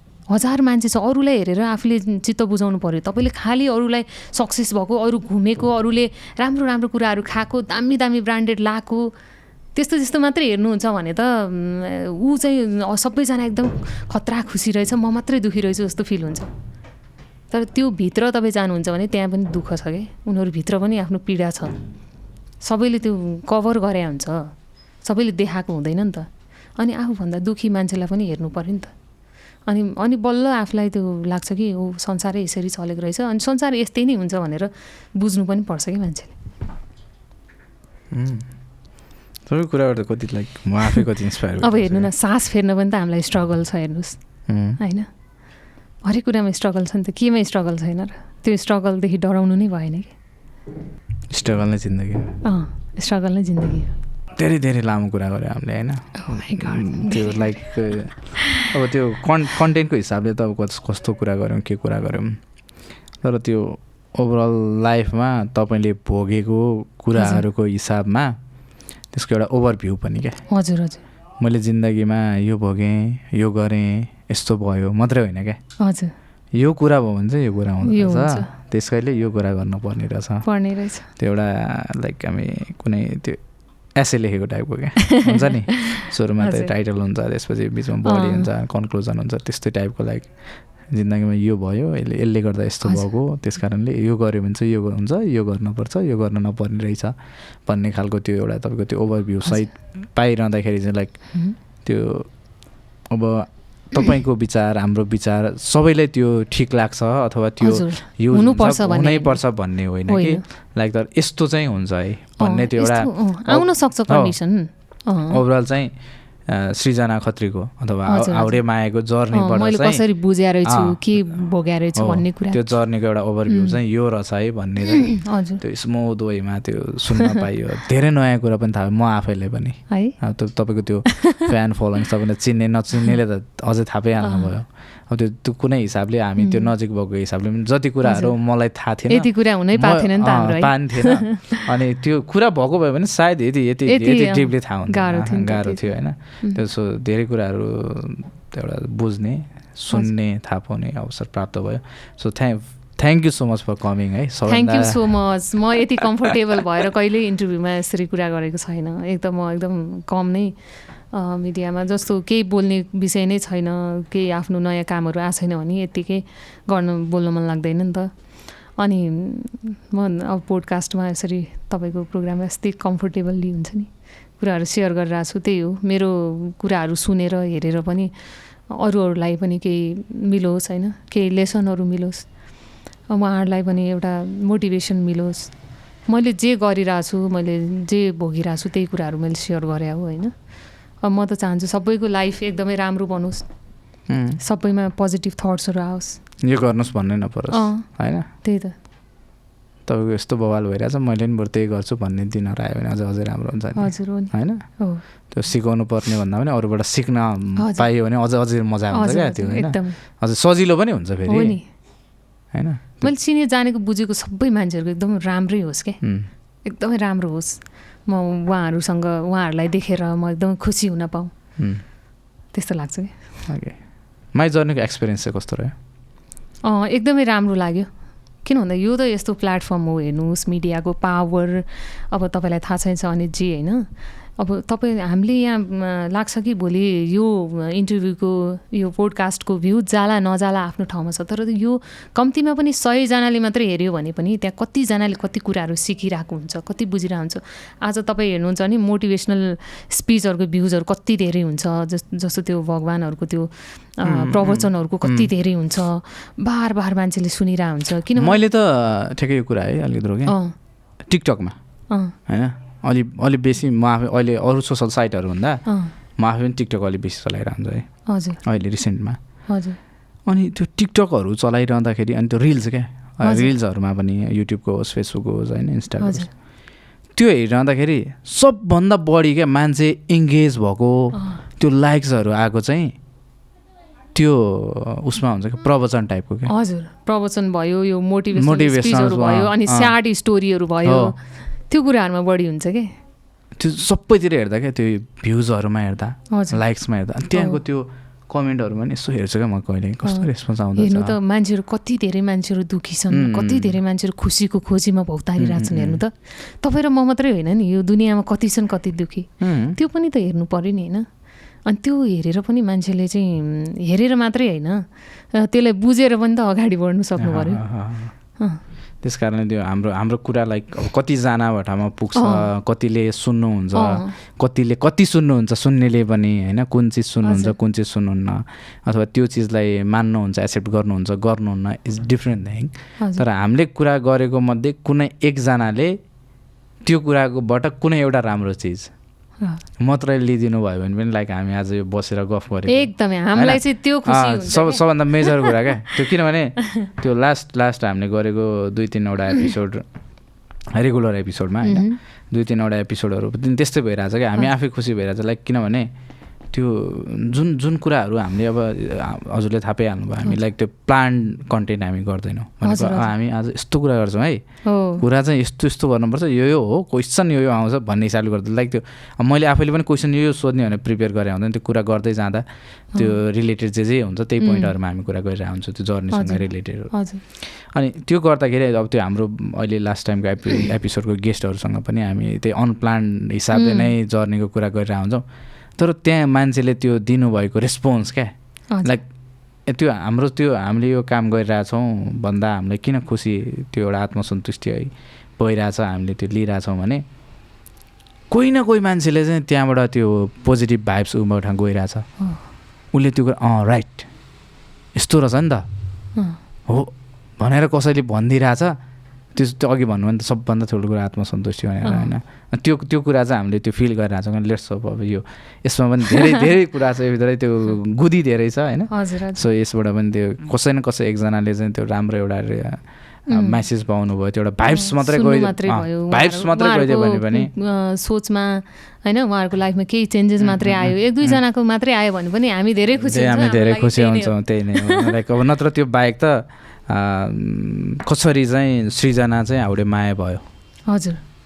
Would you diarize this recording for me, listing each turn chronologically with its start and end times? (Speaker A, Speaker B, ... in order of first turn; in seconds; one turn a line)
Speaker A: 0.3-9.1
Speaker A: 9.7-16.5
Speaker A: 17.5-21.7
Speaker A: 22.6-24.5
Speaker A: 25.0-28.9
Speaker A: 29.7-36.3
Speaker B: 38.1-38.5
Speaker B: 39.5-42.1
Speaker A: 41.6-44.2
Speaker B: 44.5-44.8
Speaker A: 44.8-45.1
Speaker A: 46.0-50.1
Speaker B: 51.3-52.4
Speaker A: 52.4-53.9
Speaker B: 54.4-62.4
Speaker A: 56.1-57.5
Speaker B: 63.2-68.3
Speaker A: 67.1-67.4
Speaker B: 69.1-70.4
Speaker A: 70.5-71.0
Speaker B: 71.4-75.6
Speaker A: 75.8-76.1
Speaker B: 76.5-80.5
Speaker A: 77.8-78.5
Speaker A: 80.4-81.1
Speaker B: 81.2-83.4
Speaker B: 83.9-102.3
Speaker A: 85.1-86.7
Speaker A: 88.0-88.5
Speaker B: 103.1-114.3
Speaker A: 107.6-109.4
Speaker A: 110.1-110.4
Speaker A: 112.4-115.4
Speaker B: 115.3-115.9
Speaker B: 116.5-120.0
Speaker A: 118.1-118.6
Speaker A: 119.3-122.6
Speaker B: 120.7-121.4
Speaker B: 122.0-155.1
Speaker A: 123.5-123.8
Speaker A: 125.1-125.6
Speaker A: 129.9-130.2
Speaker A: 134.2-134.5
Speaker A: 136.4-136.7
Speaker A: 138.0-138.3
Speaker A: 139.1-141.6
Speaker A: 143.8-145.9
Speaker A: 154.4-160.5
Speaker A: 161.1-168.1
Speaker A: 168.8-178.1
Speaker A: 178.7-182.3
Speaker A: 183.1-185.5
Speaker A: 186.1-190.3
Speaker A: 191.0-193.5
Speaker B: 194.1-194.4
Speaker A: 194.4-196.2
Speaker B: 196.4-198.2
Speaker A: 197.5-198.7
Speaker B: 199.8-211.6
Speaker A: 203.8-205.0
Speaker A: 207.6-207.8
Speaker A: 208.9-210.0
Speaker A: 211.3-211.7
Speaker B: 212.5-213.1
Speaker A: 213.0-216.0
Speaker B: 216.0-216.3
Speaker A: 216.6-221.3
Speaker A: 222.5-223.3
Speaker B: 223.5-223.8
Speaker B: 224.3-225.7
Speaker A: 226.6-227.9
Speaker A: 228.4-233.8
Speaker A: 234.4-258.4
Speaker B: 254.0-255.3
Speaker B: 258.1-260.4
Speaker A: 260.2-260.5
Speaker B: 261.0-261.6
Speaker A: 261.9-262.1
Speaker B: 262.1-265.6
Speaker A: 265.6-265.9
Speaker B: 266.2-269.2
Speaker A: 268.1-268.4
Speaker A: 269.5-269.8
Speaker B: 270.2-276.3
Speaker A: 273.2-273.5
Speaker A: 276.0-276.3
Speaker B: 277.1-282.9
Speaker A: 281.1-281.4
Speaker B: 284.1-286.5
Speaker A: 286.5-291.2
Speaker B: 288.4-289.9
Speaker B: 290.8-291.1
Speaker A: 291.7-292.9
Speaker B: 293.6-301.1
Speaker A: 296.3-296.6
Speaker A: 297.3-297.6
Speaker A: 300.0-311.1
Speaker B: 303.1-303.8
Speaker B: 305.4-306.0
Speaker B: 309.4-309.8
Speaker A: 311.6-317.6
Speaker B: 317.2-318.1
Speaker B: 319.0-336.0
Speaker A: 322.1-322.4
Speaker A: 323.7-324.1
Speaker A: 327.2-327.5
Speaker B: 336.8-338.9
Speaker B: 339.8-349.9
Speaker A: 342.7-345.5
Speaker B: 350.7-355.9
Speaker A: 351.6-352.0
Speaker B: 356.5-385.2
Speaker A: 362.6-363.1
Speaker A: 364.6-365.0
Speaker A: 374.4-374.7
Speaker A: 376.1-377.2
Speaker A: 383.5-383.9
Speaker B: 385.8-388.3
Speaker A: 388.7-389.0
Speaker B: 389.6-397.0
Speaker B: 398.3-402.1
Speaker B: 402.9-404.1
Speaker B: 404.9-405.6
Speaker B: 406.7-408.8
Speaker B: 409.3-427.5
Speaker A: 411.8-412.1
Speaker A: 418.9-419.4
Speaker A: 423.3-423.6
Speaker A: 424.7-435.1
Speaker B: 430.4-431.4
Speaker B: 433.0-440.4
Speaker A: 440.9-441.2